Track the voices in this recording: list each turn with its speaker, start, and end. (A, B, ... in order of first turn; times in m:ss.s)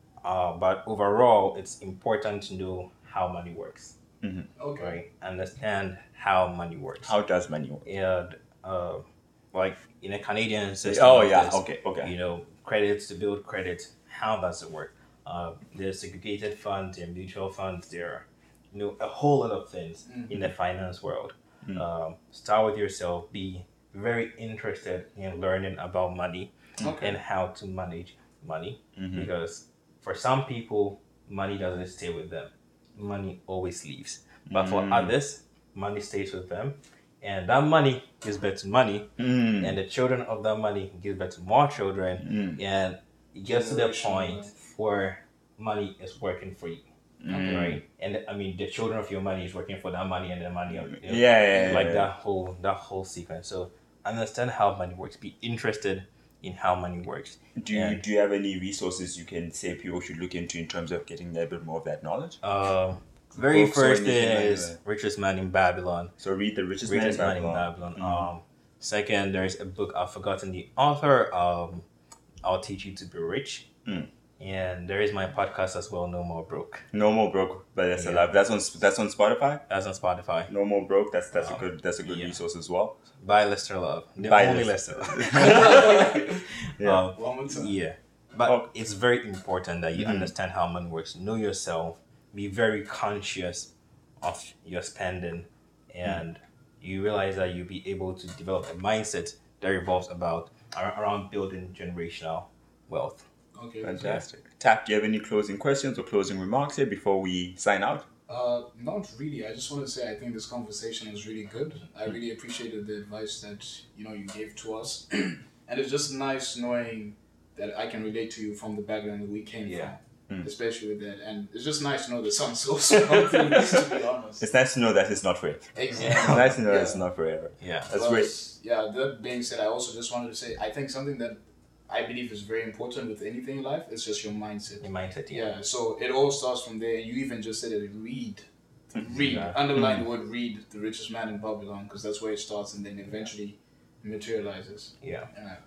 0:00.2-0:04.0 A
0:04.2-0:04.5 B
0:04.6-0:05.0 C
0:04.8-0:07.1 A
0:07.0-0:07.9 B
0:07.8-0:58.0 A
0:10.8-0:12.1 B
0:20.1-0:20.4 C
0:26.8-0:27.2 C
0:29.0-0:29.3 B
0:34.5-0:35.2 B
0:39.2-0:39.8 B
0:42.2-0:42.6 B
0:43.4-0:44.5 C
0:47.2-0:47.8 B
0:50.7-0:52.1 B
0:57.6-1:02.4 B
1:02.4-1:06.2 A
1:03.4-1:04.8 B
1:06.2-1:08.3 B
1:06.8-1:11.9 A
1:12.4-1:13.7 A
1:14.4-1:16.9 A
1:16.9-1:19.6 B
1:18.0-1:18.4 A
1:19.7-1:20.5 A
1:20.5-1:23.0 B
1:21.4-1:22.4 A
1:23.2-1:43.2 A
1:24.2-1:27.1 B
1:25.4-1:26.3 C
1:27.1-1:27.8 C
1:29.9-1:30.3 B
1:43.6-1:44.2 C
1:43.8-1:48.1 B
1:48.3-2:04.4 C
1:59.6-2:00.0 A
2:03.1-2:03.7 B
2:04.4-2:08.3 B
2:05.8-2:07.0 C
2:06.0-2:06.4 A
2:07.6-2:07.9 A
2:07.9-2:25.6 C
2:14.8-2:15.6 A
2:18.9-2:20.0 B
2:19.1-2:19.8 A
2:25.0-2:25.3 A